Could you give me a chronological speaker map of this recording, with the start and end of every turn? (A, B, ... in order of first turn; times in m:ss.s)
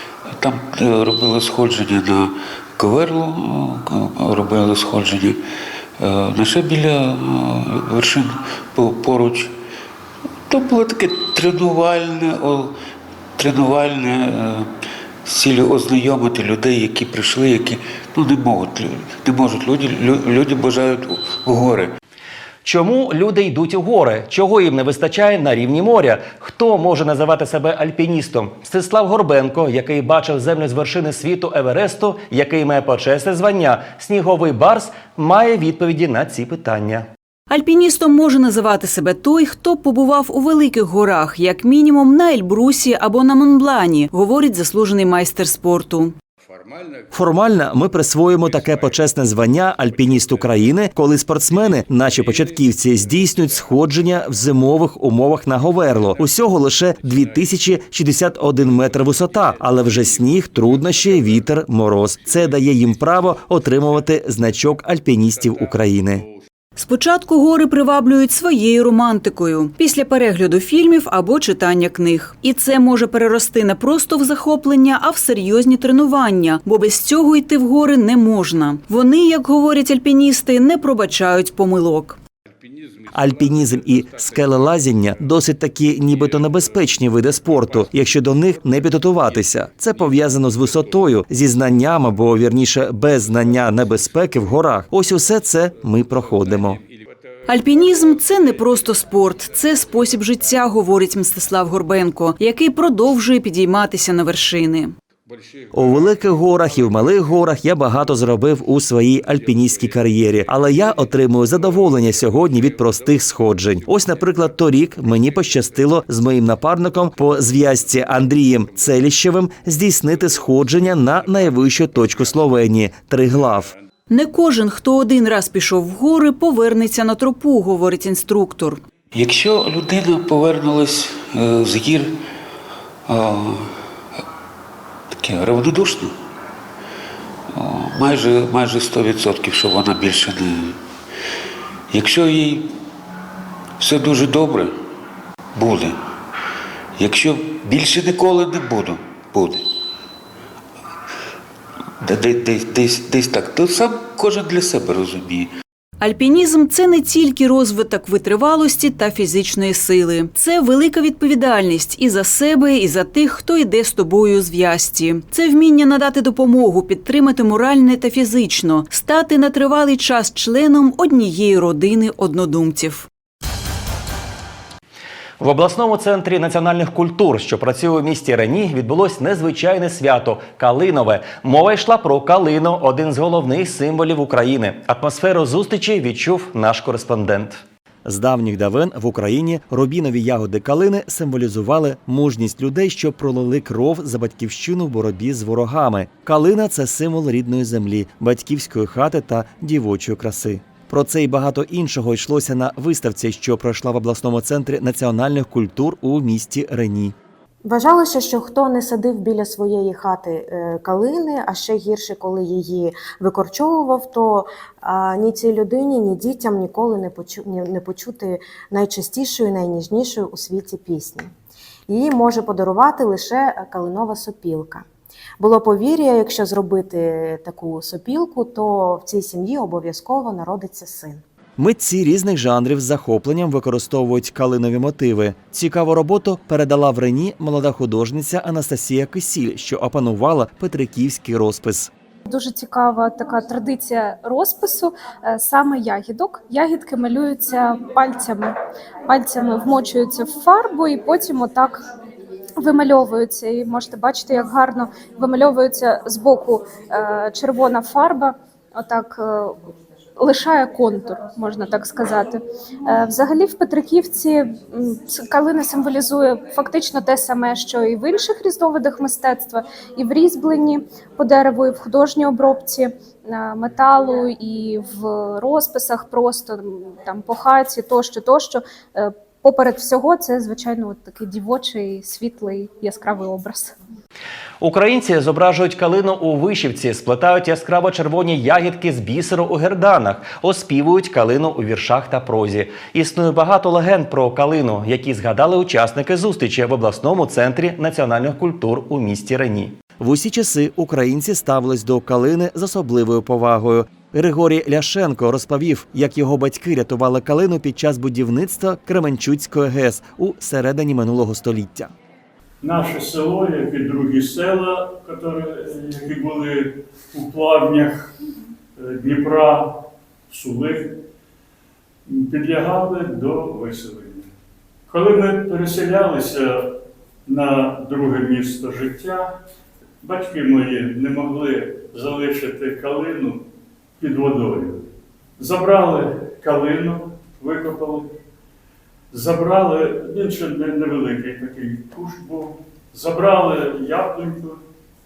0:00.3-0:05.4 A
0:06.0-0:09.6 A
0:10.5-0:12.8 A
0:13.4-0:14.7 A
0:15.2-0:21.9 A
0:22.6-0:37.1 B
0:37.5-0:46.2 C
0:47.1-1:06.3 B
1:06.8-1:22.2 C
1:23.1-1:36.8 B
1:37.5-1:44.9 C
1:45.7-2:03.8 B
2:04.1-2:08.8 C
2:09.1-2:12.2 A
2:13.1-2:13.9 A
2:15.1-2:16.2 A
2:17.5-2:20.8 A
2:21.9-2:22.8 A
2:23.8-2:24.8 A
2:25.6-2:26.0 A
2:27.0-2:29.7 A
2:32.0-2:35.5 A
2:36.0-2:53.1 C
2:55.4-3:27.1 B
3:27.6-3:41.3 D
3:41.9-3:44.8 D
3:45.4-3:51.2 D
3:51.6-4:01.9 B
4:02.3-4:08.6 E
4:09.1-4:11.9 E
4:12.6-4:43.8 E
4:44.6-5:11.9 B
5:12.6-5:18.1 F
5:18.8-5:19.8 F
5:20.3-5:21.0 F
5:22.1-5:24.3 F
5:24.9-5:29.4 F
5:30.0-5:33.4 F
5:34.0-5:38.1 F
5:39.1-5:44.6 F